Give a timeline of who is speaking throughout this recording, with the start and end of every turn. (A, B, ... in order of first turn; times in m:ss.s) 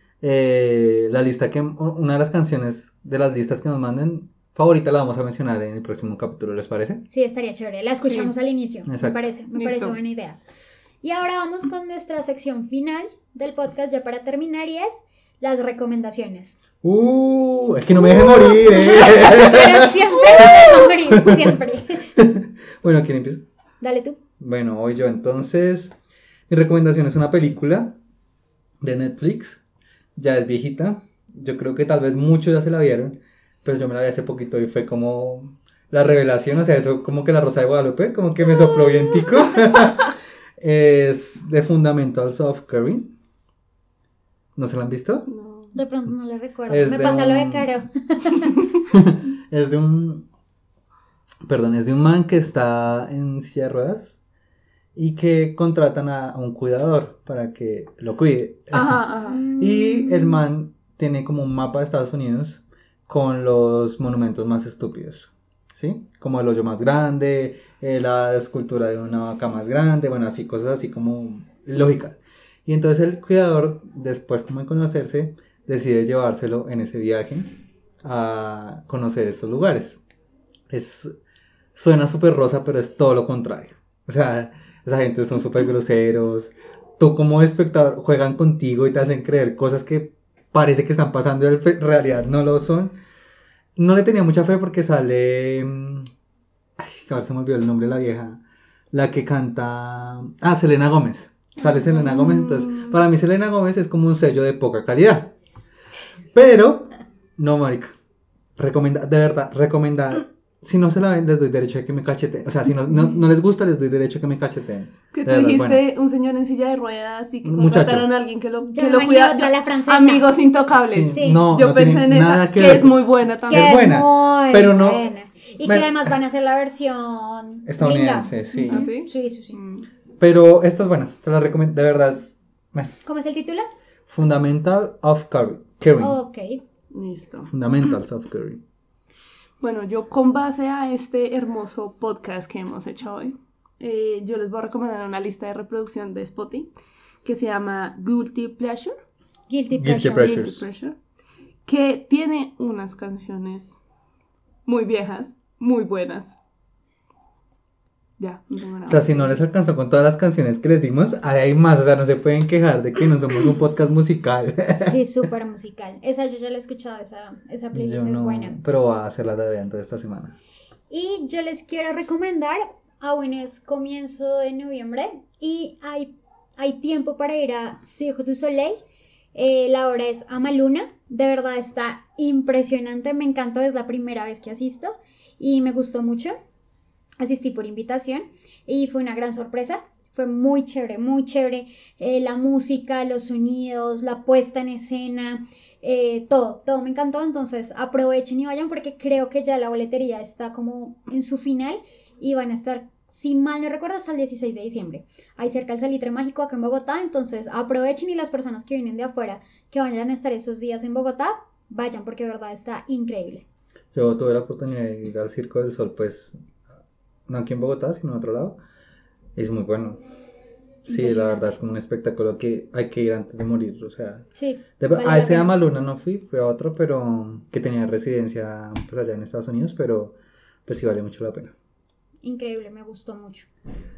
0:00.2-0:07.0 A
0:07.1-0:10.4 B
0:08.0-0:08.3 C
0:08.8-0:09.3 A
0:09.5-0:10.0 C
0:11.0-0:16.6 B
0:16.8-0:20.3 A
0:18.9-0:22.0 B
0:20.4-0:20.8 C
0:21.1-0:21.5 A
0:22.2-0:23.4 A
0:23.8-0:24.2 B
0:24.4-0:25.9 A
0:26.5-0:28.0 A
0:28.8-0:29.6 A
0:30.2-0:43.1 A
0:44.6-0:45.3 A
0:45.3-0:45.7 C
0:45.7-0:48.5 B
0:46.7-0:47.7 A
0:48.9-0:50.3 A
0:51.4-0:54.2 A
0:55.0-1:20.0 A
0:58.7-0:59.4 C
0:59.3-1:00.4 B
1:20.7-1:21.1 A
1:21.7-1:33.0 A
1:33.8-1:36.1 A
1:36.8-1:38.4 A
1:38.9-1:45.3 A
1:41.6-1:43.0 C
1:46.3-1:47.9 A
1:48.6-1:55.8 A
1:55.1-2:03.8 C
1:57.4-1:58.1 A
1:58.7-2:00.3 B
2:00.7-2:05.1 A
2:01.1-2:01.5 B
2:03.5-2:09.6 B
2:05.6-2:06.1 A
2:07.6-2:08.9 A
2:08.7-2:09.9 C
2:10.2-2:12.9 A
2:13.0-2:13.6 B
2:14.1-2:16.2 A
2:16.0-2:16.6 B
2:16.9-2:17.5 C
2:17.5-2:18.6 A
2:19.6-2:26.7 C
2:27.2-2:28.9 C
2:29.5-2:30.4 B
2:29.7-2:30.7 A
2:30.1-2:30.9 C
2:31.6-2:33.7 C
2:34.6-2:36.3 C
2:38.2-2:39.4 C
2:38.9-2:45.0 A
2:44.8-2:48.6 B
2:47.7-2:50.4 A
2:50.9-2:58.8 B
2:59.3-3:06.3 B
3:07.2-3:33.4 B
3:33.9-3:36.4 A
3:37.3-3:38.6 A
3:39.4-3:40.0 A
3:40.8-3:44.2 A
3:40.9-3:41.6 B
3:44.3-3:45.5 B
3:44.8-3:51.5 A
3:52.2-3:53.5 B